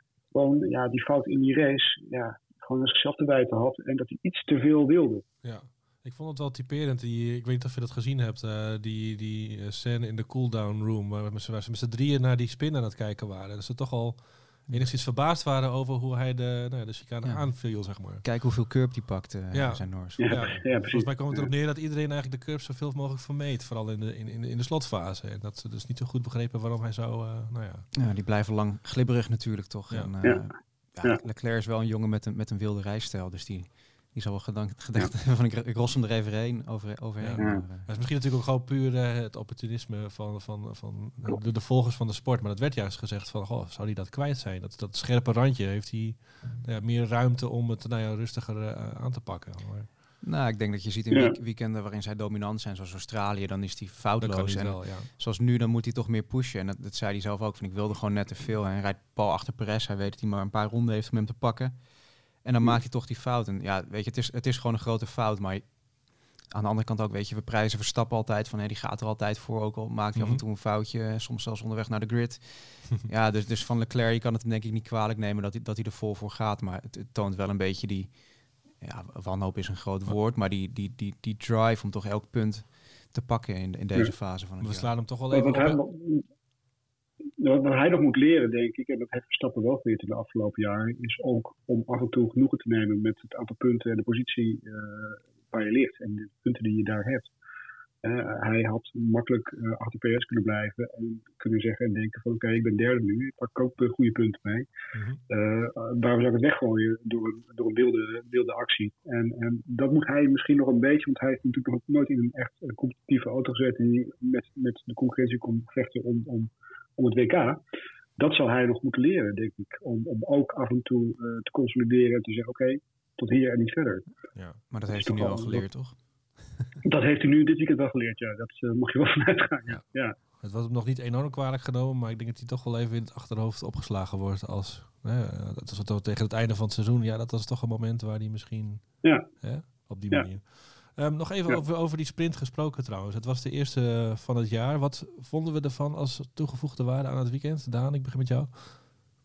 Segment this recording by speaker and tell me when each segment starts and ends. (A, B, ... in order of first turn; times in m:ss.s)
0:00.3-0:05.2 A
0:05.4-0:18.2 B
0:17.2-0:20.6 C
0:19.5-0:27.9 B
0:20.2-0:21.4 A
0:28.0-0:37.9 C
0:30.2-0:30.5 A
0:37.2-0:49.9 B
0:37.4-0:37.6 A
0:50.2-1:05.8 C
0:51.1-0:51.4 A
0:54.2-0:55.1 B
1:06.4-1:18.2 C
1:10.2-1:10.4 B
1:18.7-1:24.9 C
1:24.6-1:25.8 B
1:25.3-1:26.3 A
1:27.4-1:37.3 A
1:38.0-1:44.7 A
1:44.9-1:45.2 B
1:45.3-1:57.6 A
1:58.2-2:04.1 A
2:04.4-2:04.6 B
2:04.7-2:06.0 C
2:04.9-2:05.7 A
2:06.8-2:10.2 A
2:09.7-2:28.8 B
2:19.0-2:20.3 A